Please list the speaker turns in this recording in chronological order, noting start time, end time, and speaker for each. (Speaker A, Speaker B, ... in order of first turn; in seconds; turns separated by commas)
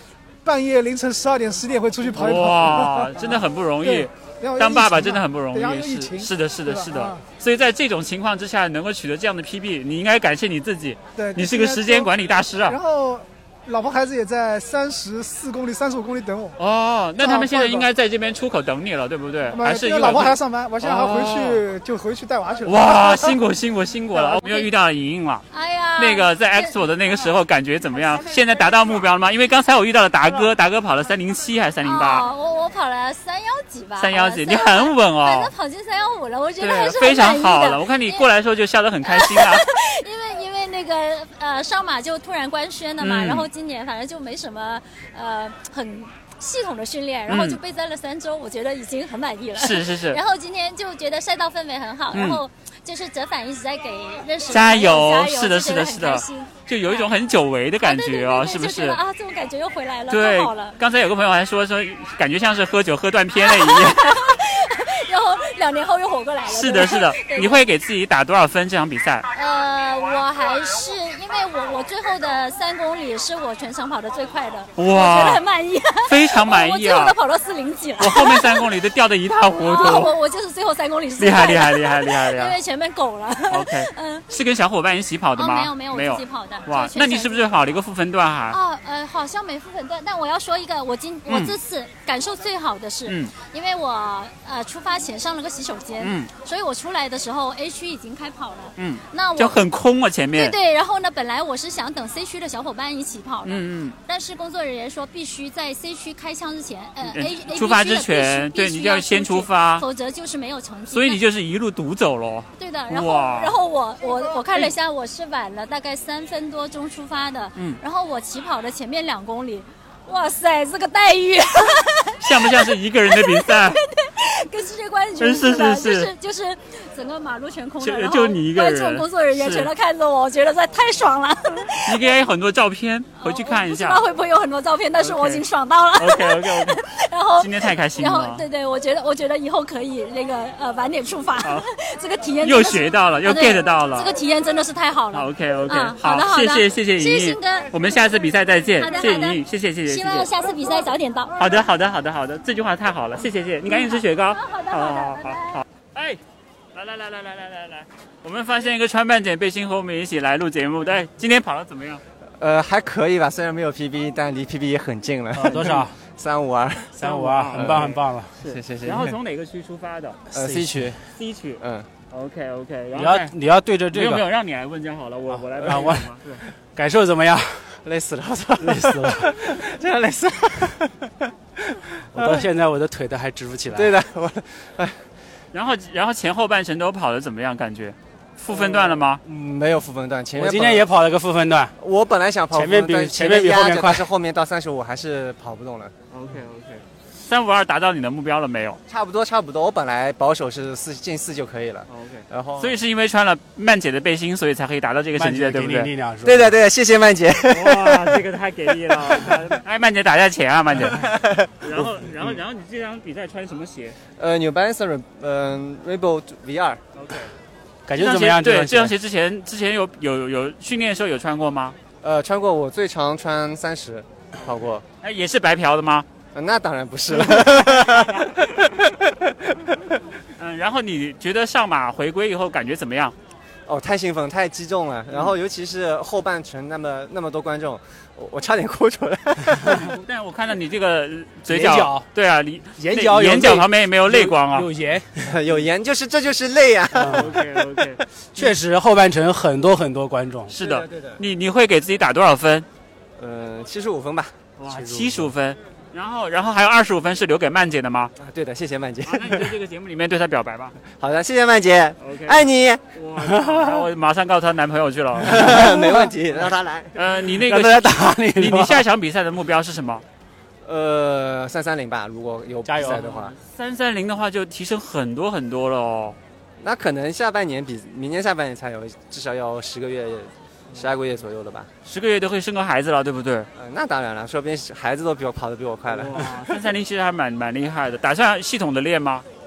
Speaker A: 0.5-7.2, Speaker B: 2.1-12.8, Speaker A: 11.2-12.1, Speaker A: 12.7-16.6, Speaker B: 16.6-21.6, Speaker A: 17.2-17.9, Speaker A: 19.5-23.4, Speaker B: 22.6-25.4, Speaker C: 24.4-24.7, Speaker C: 25.5-26.8, Speaker B: 26.0-32.3, Speaker C: 31.8-38.2, Speaker B: 34.0-35.5, Speaker B: 36.6-39.7, Speaker C: 39.0-57.1, Speaker B: 43.0-43.5, Speaker B: 47.3-47.6, Speaker B: 49.6-50.2, Speaker B: 52.1-52.4, Speaker B: 54.5-59.0, Speaker C: 57.8-60.8, Speaker B: 60.1-64.3, Speaker C: 63.4-67.6, Speaker B: 66.5-69.3, Speaker C: 69.3-78.7, Speaker B: 74.8-75.4, Speaker B: 76.0-77.2, Speaker B: 78.0-80.1, Speaker C: 79.5-84.2, Speaker B: 81.2-82.6, Speaker B: 83.5-88.6, Speaker C: 85.4-87.5, Speaker C: 88.5-99.6, Speaker B: 91.3-91.5, Speaker B: 93.1-93.3, Speaker B: 96.0-96.3, Speaker B: 98.8-100.5, Speaker C: 100.3-111.2, Speaker B: 103.4-104.0, Speaker B: 107.0-109.9, Speaker B: 110.9-113.6, Speaker C: 112.6-132.1, Speaker B: 117.5-117.8, Speaker B: 122.2-123.8, Speaker B: 125.2-126.1, Speaker B: 127.8-129.7, Speaker B: 131.8-134.0, Speaker C: 133.2-147.7, Speaker B: 135.0-135.4, Speaker B: 136.0-136.8, Speaker B: 137.4-138.5, Speaker B: 141.4-141.7, Speaker B: 142.4-144.1, Speaker B: 145.1-150.3, Speaker C: 148.8-151.3, Speaker B: 151.4-156.2, Speaker C: 153.7-155.6, Speaker B: 156.7-162.0, Speaker D: 162.4-166.9, Speaker E: 165.3-165.9, Speaker E: 167.0-168.3, Speaker B: 167.0-170.2, Speaker D: 167.5-167.9, Speaker D: 168.5-169.2, Speaker D: 170.3-171.0, Speaker E: 170.3-170.9, Speaker B: 171.1-171.6, Speaker D: 171.6-171.9, Speaker B: 172.1-173.3, Speaker E: 172.9-174.2, Speaker B: 173.9-176.4, Speaker E: 175.3-176.1, Speaker E: 176.8-177.8, Speaker D: 177.8-180.9, Speaker E: 178.6-179.3, Speaker D: 182.1-182.4, Speaker E: 182.2-183.9, Speaker D: 183.7-185.0, Speaker B: 185.5-189.2, Speaker D: 188.5-190.9, Speaker E: 190.4-191.7, Speaker D: 191.8-195.9, Speaker E: 192.5-194.1, Speaker B: 196.1-198.8, Speaker D: 198.9-202.8, Speaker B: 201.9-205.9, Speaker E: 205.2-206.6, Speaker D: 206.2-208.2, Speaker B: 207.5-214.0, Speaker D: 211.2-212.4, Speaker D: 214.2-216.8, Speaker B: 217.0-217.3, Speaker E: 217.9-218.9, Speaker B: 217.9-221.8, Speaker D: 222.0-224.8, Speaker B: 225.0-226.1, Speaker D: 226.3-228.2, Speaker B: 227.2-228.3, Speaker B: 230.4-233.2, Speaker D: 233.7-239.7, Speaker B: 239.8-244.7, Speaker E: 241.5-242.1, Speaker E: 242.8-245.3, Speaker D: 245.2-247.2, Speaker E: 246.9-247.3, Speaker B: 247.1-248.5, Speaker E: 248.4-250.6, Speaker B: 250.5-252.7, Speaker D: 250.6-251.2, Speaker D: 253.2-254.4, Speaker B: 254.6-258.1, Speaker E: 254.7-255.3, Speaker D: 258.2-259.5, Speaker B: 259.1-260.8, Speaker D: 260.8-262.8, Speaker B: 262.0-265.7, Speaker E: 263.2-263.8, Speaker D: 265.2-267.0, Speaker E: 265.4-266.0, Speaker B: 266.9-270.0, Speaker E: 267.4-268.8, Speaker D: 270.6-273.3, Speaker E: 272.6-273.1, Speaker B: 273.0-276.2, Speaker D: 276.6-281.7, Speaker B: 281.9-283.5, Speaker D: 283.6-286.4, Speaker B: 285.9-289.2